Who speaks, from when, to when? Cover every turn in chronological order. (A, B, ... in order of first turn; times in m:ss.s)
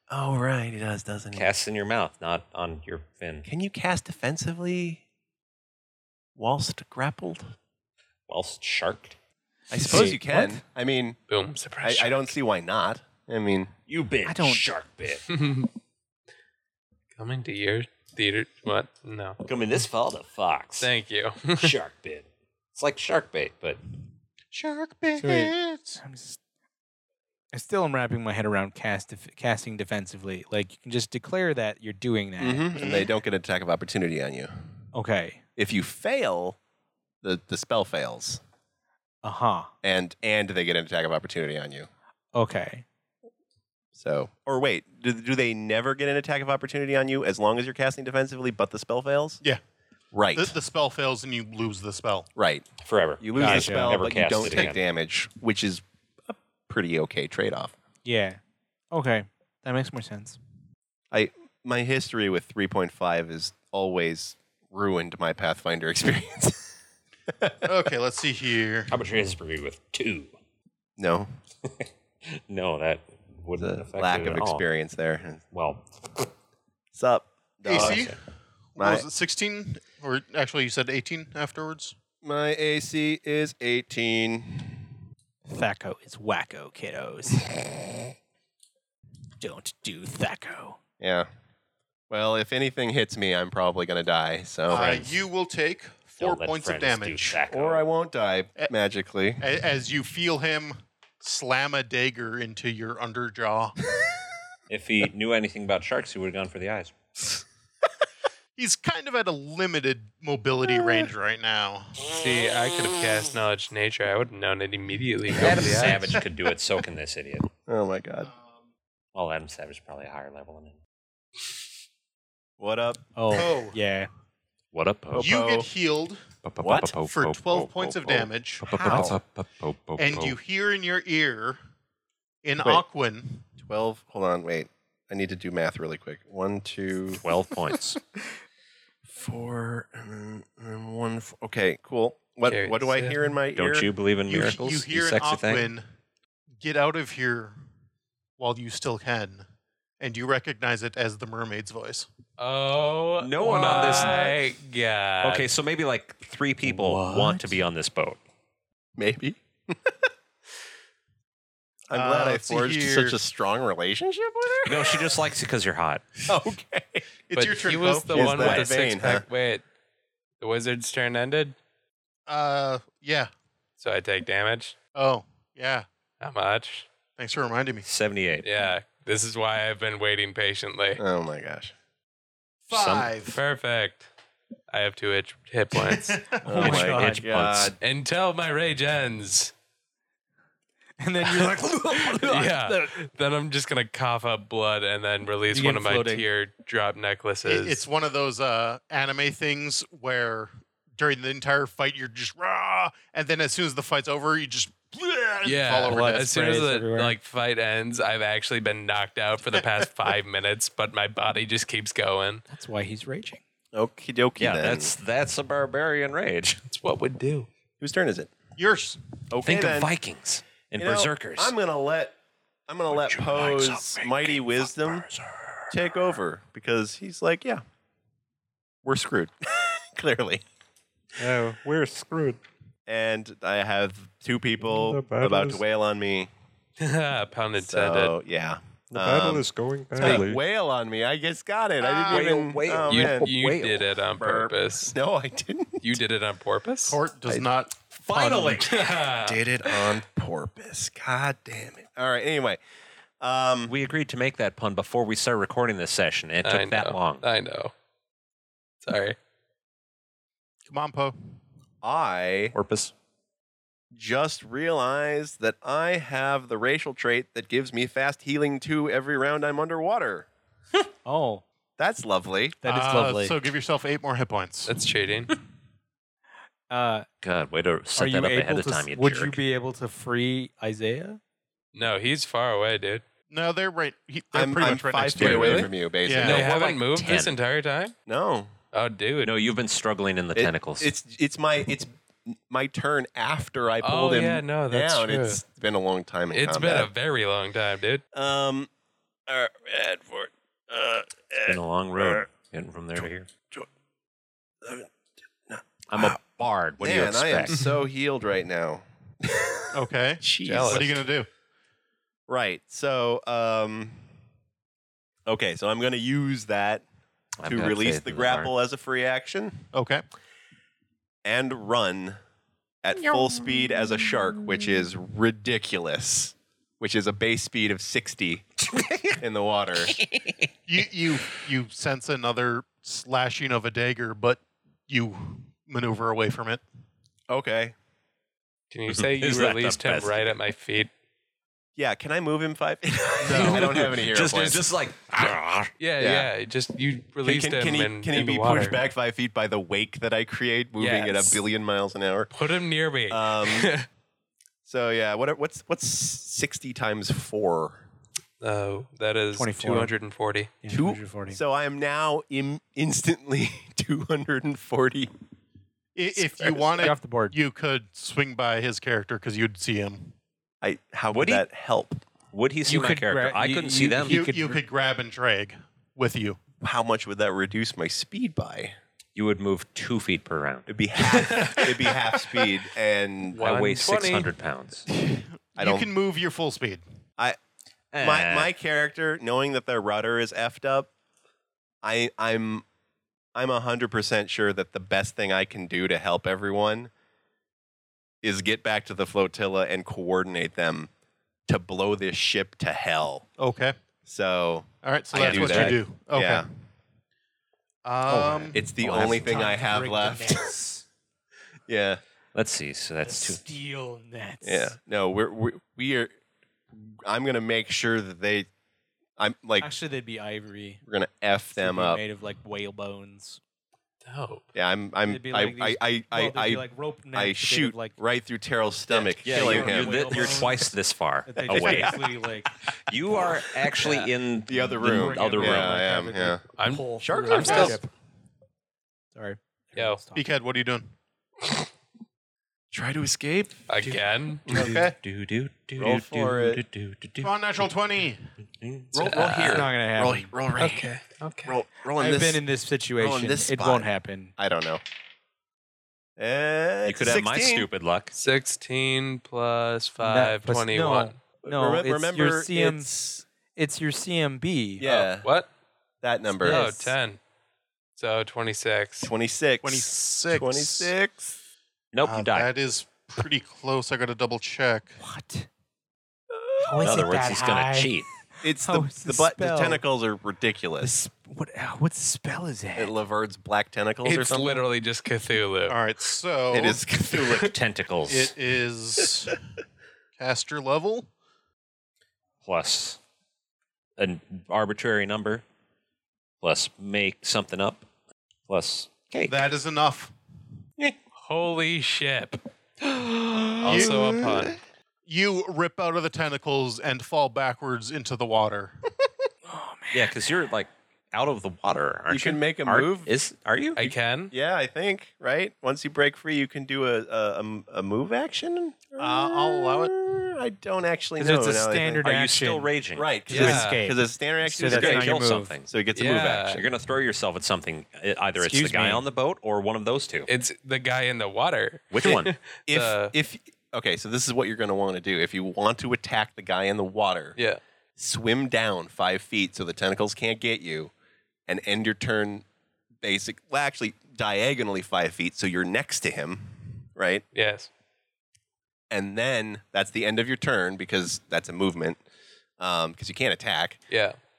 0:00.1-0:01.5 A
0:01.3-0:03.5 B
0:03.4-0:05.0 A
0:06.4-0:07.5 A
0:08.3-0:09.2 B
0:09.7-0:11.2 A
0:09.8-0:10.6 C
0:11.3-0:12.3 D
0:11.8-0:13.7 A
0:13.9-0:15.2 B
0:14.2-0:14.7 C
0:15.3-0:15.7 D
0:17.2-0:19.4 D
0:19.4-0:20.9 B
0:20.8-0:21.7 D
0:21.5-0:23.8 B
0:24.5-0:26.0 E
0:25.2-0:26.4 C
0:27.5-0:32.7 C
0:32.4-0:34.5 A
0:32.8-0:33.1 E
0:34.9-0:35.4 C
0:35.6-0:36.6 A
0:37.2-0:38.4 A
0:39.2-0:39.7 C
0:39.8-0:41.9 A
0:42.3-0:42.8 C
0:43.9-0:49.4 A
0:50.1-0:50.5 A
0:50.3-0:52.3 E
0:52.4-0:52.7 A
0:52.8-0:54.8 B
0:53.2-0:57.7 A
0:53.4-0:54.0 C
0:58.0-0:58.4 C
0:58.9-1:00.4 C
1:01.1-1:06.7 A
1:07.3-1:07.9 A
1:07.6-1:08.9 E
1:08.9-1:10.3 B
1:11.0-1:11.3 A
1:11.6-1:14.6 B
1:13.6-1:15.4 A
1:15.5-1:16.3 B
1:16.9-1:18.1 A
1:17.6-1:18.2 E
1:17.7-1:18.2 B
1:18.8-1:21.9 E
1:18.8-1:19.1 A
1:22.2-1:24.9 A
1:25.4-1:27.4 C
1:29.4-1:30.8 C
1:31.0-1:31.3 A
1:32.1-1:35.2 A
1:34.7-1:37.4 E
1:36.2-1:37.8 B
1:37.5-1:39.4 A
1:39.4-1:43.8 E
1:44.7-1:47.4 B
1:48.6-1:52.0 E
1:50.6-1:51.1 A
1:52.0-1:56.1 D
1:55.3-1:57.5 B
1:57.7-1:58.3 A
1:59.1-2:00.8 B
2:02.6-2:03.4 A
2:03.2-2:04.1 C
2:03.3-2:03.8 E
2:04.7-2:05.3 B
2:05.1-2:05.7 A
2:05.1-2:09.1 E
2:06.4-2:10.4 B
2:08.6-2:09.2 A
2:10.0-2:11.6 E
2:12.4-2:13.5 E
2:13.6-2:17.2 A
2:17.2-2:18.0 B
2:19.0-2:23.9 A
2:22.4-2:23.2 D
2:23.5-2:25.7 B
2:24.3-2:25.8 E
2:26.6-2:27.6 E
2:28.4-2:29.5 E
2:30.0-2:32.1 E
2:32.4-2:35.5 D
2:33.2-2:34.3 B
2:33.5-2:34.0 C
2:35.2-2:38.2 B
2:39.0-2:40.1 A
2:41.9-2:45.2 A
2:41.9-2:43.2 E
2:44.6-2:46.0 B
2:46.3-2:47.0 A
2:47.3-2:48.7 E
2:47.3-2:49.6 D
2:48.1-2:49.2 A
2:50.4-2:51.5 D
2:52.3-2:53.3 E
2:53.8-2:54.7 D
2:54.9-2:55.8 E
2:56.2-2:56.9 D
2:57.2-2:57.8 E
2:57.8-2:58.5 B
2:58.4-3:01.0 D
3:01.0-3:01.7 A
3:02.7-3:03.4 E
3:02.7-3:03.1 B
3:03.2-3:04.1 D
3:04.7-3:07.1 D
3:05.7-3:06.8 E
3:06.4-3:07.8 A
3:06.5-3:07.3 C
3:07.1-3:07.7 B
3:07.8-3:09.5 D
3:11.0-3:13.0 C
3:12.1-3:17.8 D
3:15.5-3:16.3 C
3:17.4-3:26.3 E
3:25.4-3:32.4 D
3:25.8-3:27.2 C
3:32.5-3:33.4 C
3:33.7-3:34.9 A
3:34.4-3:36.6 B
3:36.7-3:37.5 D
3:37.8-3:38.3 A
3:38.6-3:39.0 E
3:39.3-3:39.9 A
3:39.4-3:41.5 B
3:40.8-3:42.1 A
3:42.7-3:45.1 A
3:42.9-3:45.5 B
3:45.7-3:47.6 A
3:48.8-3:50.4 A
3:51.2-3:52.4 F
3:52.9-3:56.3 A
3:54.6-3:55.6 F
3:56.8-3:58.1 D
3:57.6-4:03.3 A
3:58.9-4:00.4 F
3:59.9-4:00.2 B
4:01.8-4:02.4 E
4:02.1-4:03.9 B
4:02.8-4:04.9 D
4:04.2-4:06.0 A
4:05.8-4:07.0 D
4:06.8-4:08.8 E
4:08.3-4:09.4 D
4:09.1-4:12.6 A
4:13.2-4:13.8 A
4:13.7-4:17.2 B
4:16.4-4:17.7 D
4:18.8-4:19.2 D
4:20.7-4:21.2 E
4:21.8-4:22.5 A
4:22.5-4:22.9 B
4:23.9-4:30.3 A
4:31.0-4:31.4 C
4:31.8-4:32.6 A
4:32.6-4:33.3 C
4:32.6-4:34.7 E
4:34.7-4:35.3 D
4:36.7-4:37.1 C
4:37.2-4:39.4 B
4:37.9-4:41.2 C
4:41.7-4:43.0 D
4:43.3-4:46.5 E
4:44.3-4:46.5 A
4:45.2-4:47.3 B
4:46.2-4:47.9 D
4:48.1-4:48.5 A
4:48.7-4:49.3 D
4:49.2-4:50.9 B
4:50.3-4:56.9 A
4:53.8-4:55.4 D
4:56.3-4:58.0 D
4:58.1-4:58.7 A
4:59.3-5:02.3 A
5:01.4-5:03.3 B
5:03.0-5:03.7 A
5:04.6-5:04.9 A
5:05.4-5:06.2 A
5:05.9-5:07.5 B
5:06.8-5:09.7 A
5:09.7-5:11.3 E
5:10.2-5:10.8 A
5:10.5-5:11.0 D
5:12.3-5:14.0 A
5:15.2-5:16.8 A
5:17.4-5:18.5 B
5:17.4-5:19.7 A
5:19.7-5:20.0 E
5:21.2-5:22.2 A
5:22.8-5:28.5 A
5:28.7-5:29.2 B
5:29.2-5:30.0 A
5:29.8-5:30.5 B
5:30.7-5:36.6 E
5:37.3-5:37.7 A
5:38.7-5:40.9 D
5:38.9-5:40.3 B
5:41.8-5:44.7 A
5:43.2-5:43.8 D
5:43.3-5:45.7 B
5:45.8-5:48.8 D
5:46.0-5:46.3 A
5:47.2-5:52.3 A
5:50.8-5:51.4 D
5:52.3-5:53.8 D
5:53.1-5:53.7 A
5:54.6-5:57.8 A
5:58.4-6:00.5 D
5:59.3-5:59.9 C
6:00.6-6:01.4 C
6:00.7-6:05.1 A
6:05.9-6:10.1 E
6:06.8-6:07.4 C
6:10.6-6:12.0 A
6:11.1-6:11.4 B
6:12.3-6:14.2 B
6:12.7-6:14.6 C
6:14.0-6:16.4 E
6:16.6-6:18.7 A
6:19.1-6:20.7 B
6:20.7-6:23.4 A
6:21.0-6:22.5 D
6:23.3-6:24.3 D
6:23.4-6:24.8 B
6:24.9-6:26.8 E
6:25.6-6:25.9 A
6:27.9-6:28.5 B
6:28.0-6:30.9 A
6:31.8-6:32.6 A
6:33.3-6:36.9 A
6:38.2-6:40.9 A
6:41.5-6:43.2 A
6:43.4-6:43.8 E
6:44.0-6:46.4 A
6:44.8-6:46.4 E
6:45.1-6:45.8 B
6:47.8-6:48.6 E
6:48.1-6:50.5 A
6:48.8-6:50.8 C
6:51.7-6:52.0 A
6:52.3-6:53.4 B
6:53.0-6:54.8 C
6:54.4-6:56.1 A
6:56.7-6:58.5 A
6:59.2-6:59.7 A
6:59.6-7:00.8 C
7:00.9-7:02.0 A
7:01.6-7:03.4 C
7:04.0-7:04.4 D
7:04.5-7:10.5 A
7:05.1-7:07.9 C
7:08.9-7:10.7 C
7:09.2-7:12.0 B
7:11.3-7:12.5 C
7:11.5-7:12.1 A
7:12.9-7:15.9 B
7:14.5-7:16.4 A
7:14.8-7:17.9 C
7:16.6-7:17.8 D
7:17.0-7:17.8 A
7:17.4-7:17.7 E
7:19.1-7:20.2 C
7:19.7-7:20.0 D
7:20.1-7:20.9 E
7:22.7-7:23.6 A
7:23.7-7:24.7 D
7:24.5-7:25.0 E
7:24.5-7:27.3 B
7:25.8-7:26.6 A
7:27.2-7:28.2 E
7:28.6-7:29.5 B
7:28.9-7:30.9 A
7:29.0-7:29.6 D
7:29.4-7:30.3 C
7:30.6-7:31.5 D
7:31.4-7:32.4 A
7:32.0-7:34.3 C
7:33.0-7:34.8 A
7:36.2-7:37.7 A
7:36.8-7:38.1 B
7:38.1-7:41.2 D
7:40.0-7:42.9 C
7:41.4-7:43.2 A
7:43.5-7:45.0 C
7:44.8-7:45.3 A
7:45.2-7:45.5 D
7:46.0-7:46.6 A
7:46.4-7:47.2 D
7:46.4-7:46.9 C
7:48.0-7:49.1 D
7:49.0-7:51.3 A
7:49.6-7:50.9 E
7:51.9-7:52.5 B
7:52.0-7:55.0 E
7:55.0-7:55.5 C
7:56.6-7:59.8 C
7:56.8-7:58.1 B
7:58.4-8:00.9 A
8:00.8-8:02.9 C
8:02.8-8:04.6 A
8:04.0-8:05.8 D
8:05.7-8:06.8 E
8:06.5-8:07.5 A
8:07.3-8:08.3 B
8:08.1-8:09.4 E
8:10.2-8:11.1 E
8:12.4-8:13.0 B
8:14.0-8:15.4 B
8:16.4-8:17.9 B
8:18.5-8:19.4 B
8:19.3-8:20.1 E
8:21.2-8:22.4 D
8:23.6-8:24.6 D
8:23.6-8:24.2 E
8:25.1-8:28.8 E
8:29.5-8:30.2 C
8:29.9-8:33.9 B
8:32.1-8:33.1 A
8:33.8-8:34.3 D
8:34.3-8:42.0 A
8:39.0-8:39.9 E
8:41.2-8:42.7 C
8:42.0-8:43.1 B
8:43.0-8:45.1 A
8:43.3-8:43.8 D
8:43.3-8:45.5 C
8:44.7-8:45.7 B
8:45.7-8:46.6 A
8:45.9-8:46.6 D
8:46.5-8:50.3 B
8:48.4-8:49.0 C
8:50.3-8:53.1 D
8:51.9-8:52.3 B
8:52.7-8:57.4 A
8:58.0-9:00.9 A
9:01.5-9:02.4 A
9:03.0-9:07.2 A
9:07.3-9:07.7 D
9:08.9-9:12.0 A
9:12.6-9:13.8 A
9:13.9-9:14.2 D